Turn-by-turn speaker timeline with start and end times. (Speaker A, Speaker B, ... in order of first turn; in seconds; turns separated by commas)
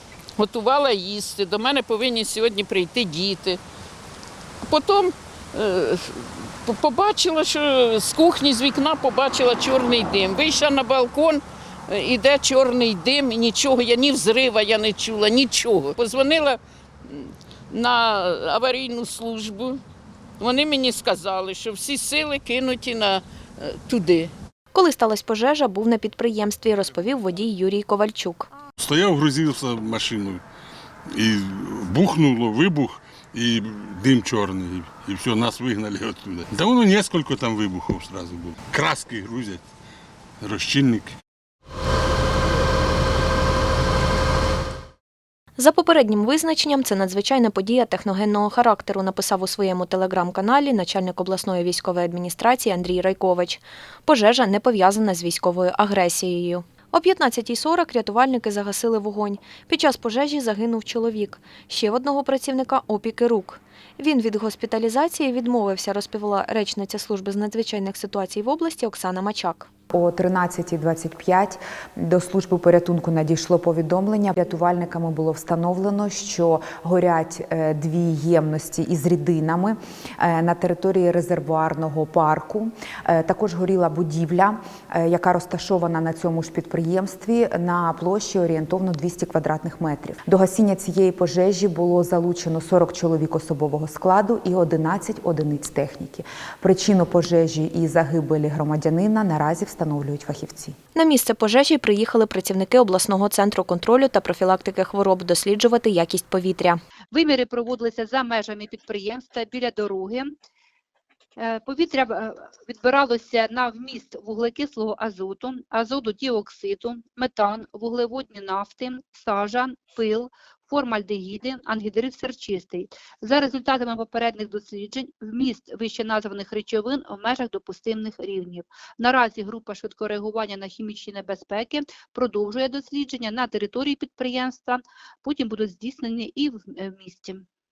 Speaker A: 0.4-3.6, Speaker A: 4.6-19.8, Speaker A: 20.4-24.3, Speaker B: 24.7-28.5, Speaker C: 28.8-30.4, Speaker C: 31.1-39.6, Speaker C: 40.4-41.1, Speaker B: 45.5-69.7, Speaker D: 69.9-100.7, Speaker B: 100.9-106.8, Speaker E: 107.1-110.3, Speaker E: 111.4-137.4